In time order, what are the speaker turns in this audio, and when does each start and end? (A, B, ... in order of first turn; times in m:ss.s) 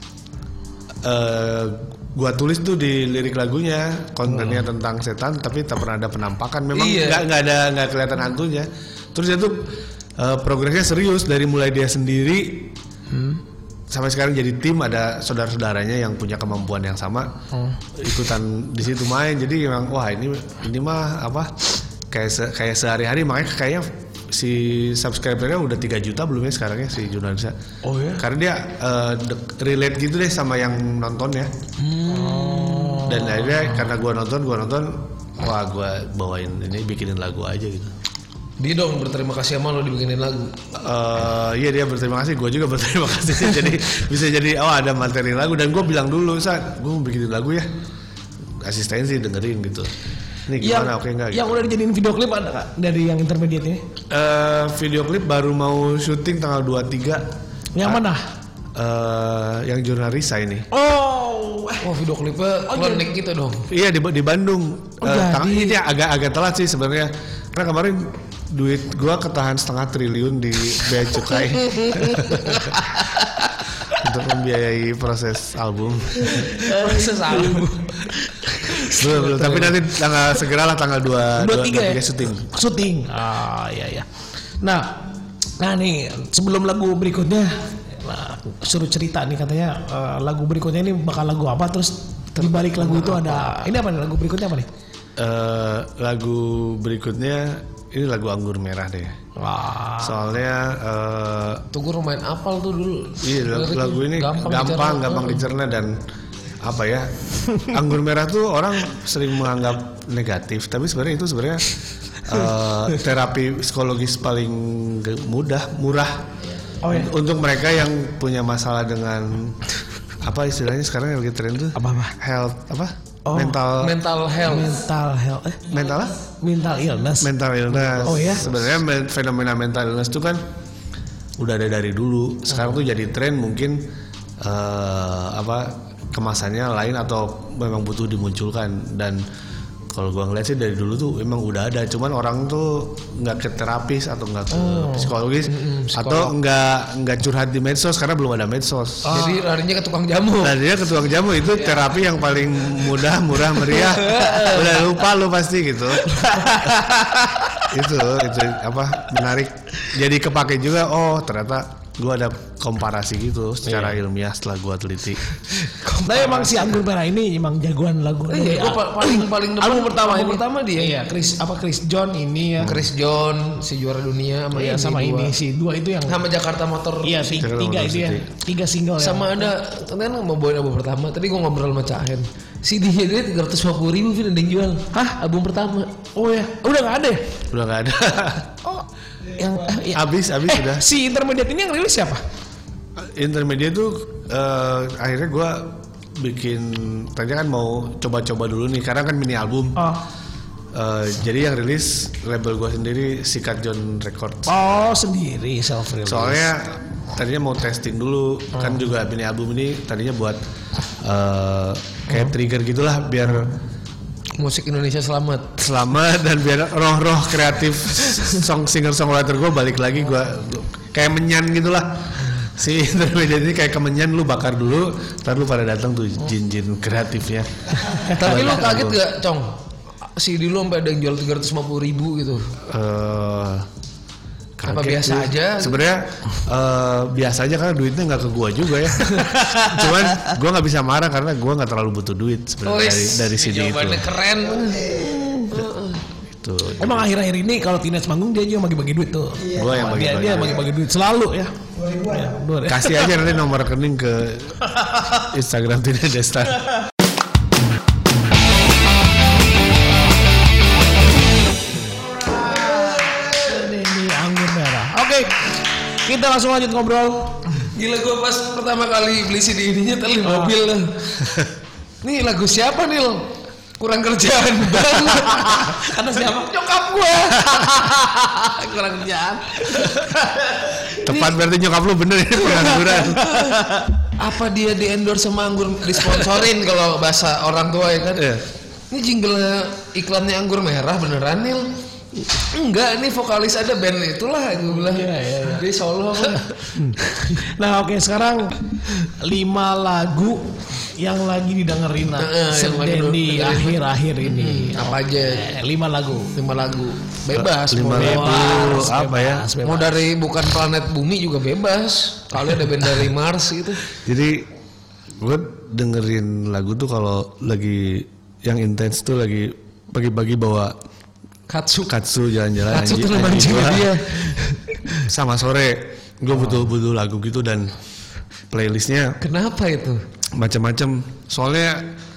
0:01.0-0:12.8 A
0:06.7-0:07.2 B
0:13.9-0:17.3 A
0:18.0-0:21.5 A
0:22.1-0:27.5 A
0:27.8-0:28.2 C
0:28.2-0:31.5 A
0:31.8-0:33.0 B
0:32.1-0:33.4 C
0:33.0-0:37.9 A
0:38.6-0:40.5 B
0:40.7-0:47.7 A
0:48.6-0:49.9 A
0:50.5-0:51.6 A
0:50.6-0:53.8 C
0:54.1-0:57.2 A
0:57.8-0:58.2 C
0:58.7-1:00.6 A
1:00.7-1:01.8 C
1:01.8-1:03.6 B
1:02.7-1:03.1 C
1:03.7-1:12.8 A
1:05.0-1:05.8 C
1:11.6-1:12.6 B
1:13.8-1:16.7 A
1:16.4-1:18.0 C
1:16.6-1:17.9 B
1:18.7-1:22.5 A
1:18.9-1:19.7 B
1:21.4-1:24.1 C
1:24.6-1:25.0 C
1:25.6-1:34.7 C
1:32.4-1:33.7 B
1:35.2-1:39.1 A
1:39.4-1:40.2 C
1:40.0-1:41.6 A
1:41.7-1:45.4 B
1:43.2-1:46.0 A
1:46.6-1:51.6 A
1:52.2-1:56.2 A
1:56.8-1:57.1 C
1:56.9-1:59.6 A
2:00.2-2:04.0 A
2:01.7-2:02.1 C
2:03.3-2:03.6 C
2:03.8-2:04.8 B
2:04.4-2:05.6 C
2:05.7-2:06.2 A
2:06.4-2:07.3 C
2:07.2-2:10.4 A
2:08.0-2:08.5 C
2:11.4-2:13.8 A
2:14.4-2:19.2 A
2:19.9-2:29.3 A
2:24.5-2:25.1 C
2:25.5-2:26.3 B
2:29.0-2:29.4 C
2:29.0-2:30.6 B
2:30.4-2:36.2 A
2:33.8-2:34.7 B
2:36.1-2:37.2 C
2:37.7-2:45.2 A
2:45.8-2:46.7 B
2:46.0-2:52.8 C
2:48.3-2:50.9 B
2:52.6-2:55.3 B
2:54.5-2:56.2 C
2:56.1-2:57.4 B
2:57.0-2:59.5 C
2:57.4-2:58.2 A
2:59.0-3:05.9 B
3:04.9-3:05.2 C
3:06.1-3:07.4 C
3:07.5-3:08.5 A
3:08.6-3:12.2 C
3:09.8-3:10.8 A
3:13.0-3:19.8 A
3:19.8-3:20.0 C
3:20.7-3:24.5 A
3:24.4-3:26.5 C
3:26.0-3:30.4 A
3:31.0-3:33.5 A
3:34.4-3:35.5 B
3:35.6-3:49.0 A
3:48.1-3:49.6 B
3:50.1-3:52.5 B
3:52.6-3:53.6 A
3:54.6-4:04.1 A
3:54.6-3:55.8 B
3:59.0-3:59.9 C
4:02.6-4:06.0 B
4:05.0-4:05.5 C
4:06.3-4:07.1 A
4:06.8-4:13.2 C
4:09.5-4:10.6 A
4:12.6-4:16.6 A
4:22.3-4:27.4 C
4:27.7-4:31.1 B
4:30.2-4:30.5 C
4:31.2-4:31.5 A
4:32.0-4:35.8 B
4:35.4-4:40.8 C
4:37.3-4:39.7 B
4:41.0-4:43.4 A
4:42.9-4:43.9 C
4:44.2-4:48.2 B
4:48.2-4:48.4 A
4:48.9-4:51.7 B
4:52.3-4:56.7 B
4:54.7-4:55.6 C
4:56.7-5:06.3 C
5:02.2-5:05.5 B
5:06.3-5:08.9 B
5:07.3-5:09.5 A
5:07.9-5:09.9 C
5:09.6-5:13.8 B
5:13.9-5:14.5 A
5:15.2-5:20.7 A
5:21.5-5:21.9 B
5:21.9-5:24.0 A
5:22.7-5:24.6 B
5:25.0-5:27.7 A
5:28.5-5:29.2 A
5:29.2-5:30.0 B
5:30.3-5:31.9 A